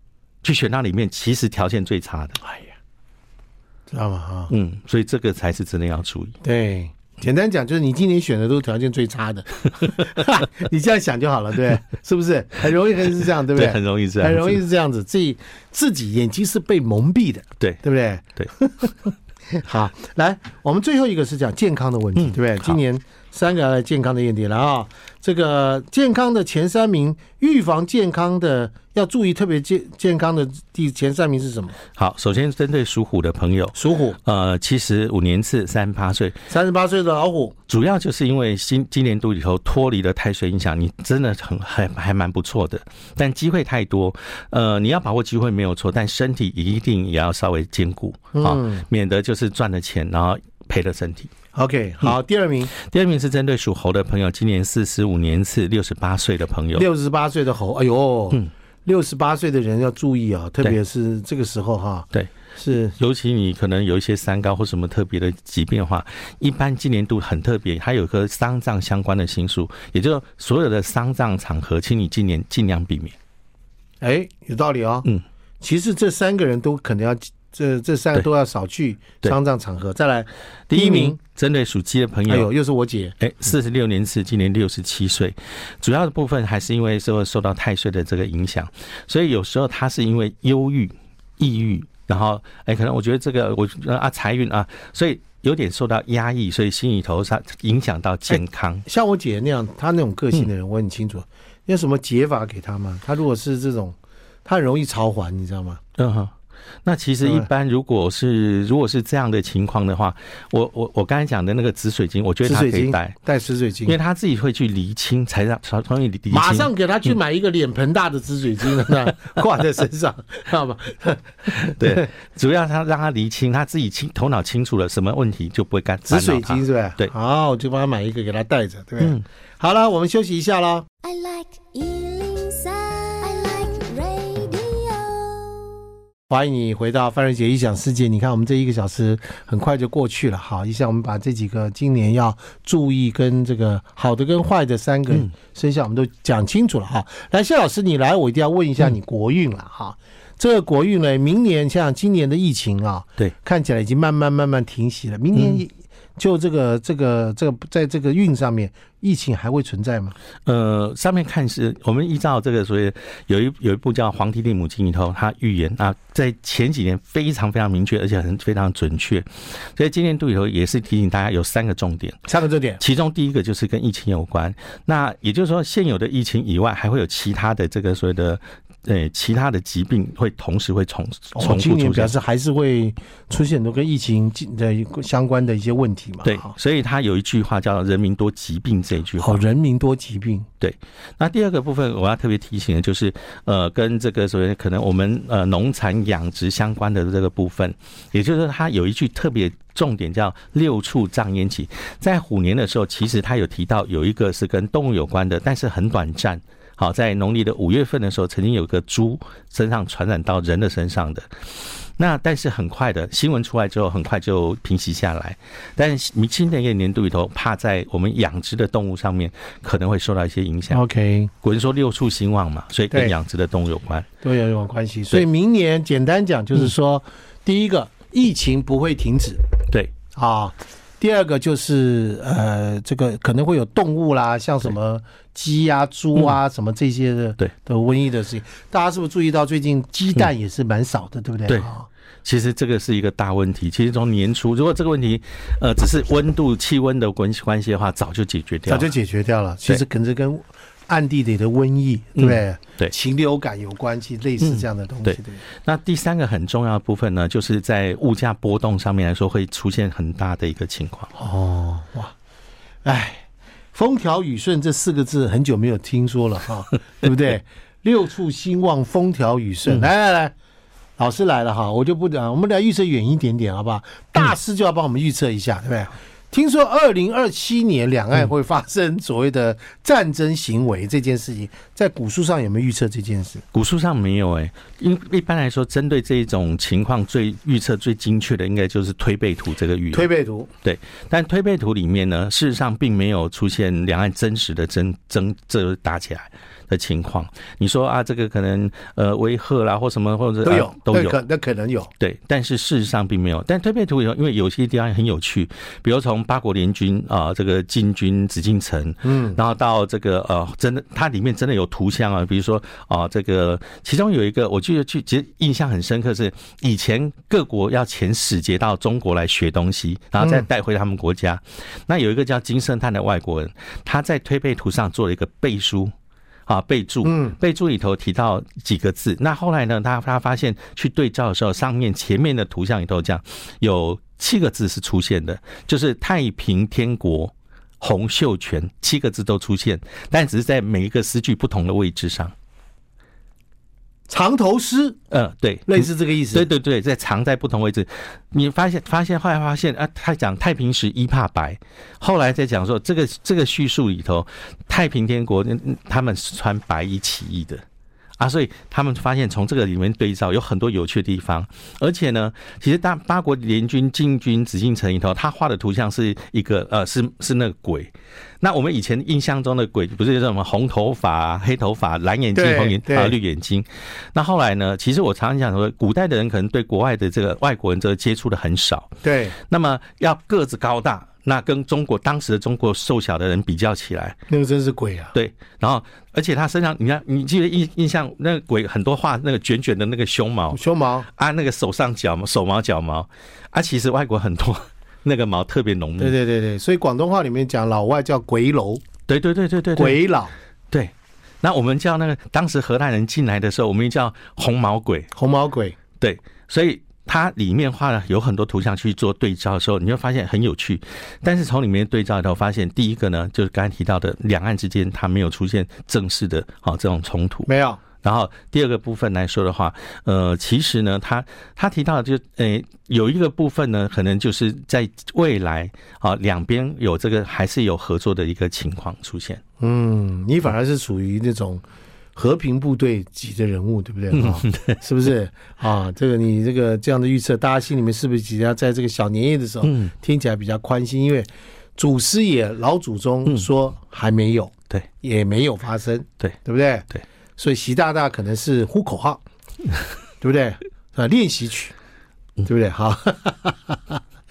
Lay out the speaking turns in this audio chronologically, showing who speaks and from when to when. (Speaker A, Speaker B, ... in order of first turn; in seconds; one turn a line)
Speaker A: 0.4-2.4
Speaker B: 3.9-4.5
Speaker A: 4.5-6.3
Speaker B: 6.4-19.0
Speaker A: 13.5-14.6
Speaker B: 19.5-31.8
Speaker A: 31.9-36.4
Speaker B: 33.7-34.2
Speaker B: 36.5-37.5
Speaker A: 37.7-51.3
Speaker B: 48.3-48.8
Speaker B: 51.5-52.7
Speaker A: 52.7-56.9
Speaker B: 56.7-62.9
Speaker A: 62.9-73.2
Speaker B: 74.0-75.1
Speaker B: 75.6-81.2
Speaker A: 80.7-82.5
Speaker B: 82.3-83.2
Speaker A: 83.2-98.8
Speaker B: 98.3-105.8
Speaker A: 106.0-106.3
Speaker A: 106.8-113.1
Speaker B: 107.2-107.5
Speaker B: 112.4-114.0
Speaker A: 113.8-116.7
Speaker B: 116.3-122.1
Speaker A: 121.7-127.1
Speaker B: 126.0-130.9
Speaker C: 131.0-135.7
Speaker B: 136.3-160.1
Speaker A: 155.3-155.6
Speaker A: 160.4-172.2
Speaker B: 172.3-172.8
Speaker A: 172.8-182.1
Speaker B: 181.3-186.5
Speaker A: 186.2-189.4
Speaker B: 189.2-190.5
Speaker A: 190.6-220.8
Speaker B: 220.7-221.3
Speaker A: 221.4-224.1
Speaker B: 224.2-229.5
Speaker B: 230.1-241.9
Speaker A: 242.2-248.9
Speaker B: 248.7-255.4
Speaker A: 252.2-252.9
Speaker A: 254.4-261.1
Speaker B: 261.1-262.1
Speaker B: 262.8-270.3
Speaker B: 271.0-283.4
Speaker A: 283.5-290.1
Speaker B: 289.9-290.5
Speaker A: 290.6-301.2
Speaker B: 300.4-301.9
Speaker A: 302.0-325.9
Speaker B: 309.0-309.4
Speaker B: 320.2-320.5
Speaker A: 326.5-342.3
Speaker B: 327.0-327.4
Speaker B: 344.1-345.0
Speaker A: 345.1-357.6
Speaker B: 345.7-346.5
Speaker A: 358.2-384.2
Speaker B: 372.3-373.1
Speaker B: 379.0-379.4
Speaker B: 384.3-385.1
Speaker A: 385.1-396.1
Speaker B: 390.5-391.1
Speaker B: 396.0-398.8
Speaker A: 399.1-400.0
Speaker B: 399.7-400.3
Speaker A: 400.7-405.1
Speaker B: 405.1-405.8
Speaker A: 406.0-417.5
Speaker B: 417.5-417.8
Speaker A: 418.0-429.4
Speaker B: 429.6-431.6
Speaker B: 432.1-449.2
Speaker A: 434.1-434.8
Speaker A: 439.6-439.9
Speaker B: 450.2-451.7
Speaker B: 452.4-454.0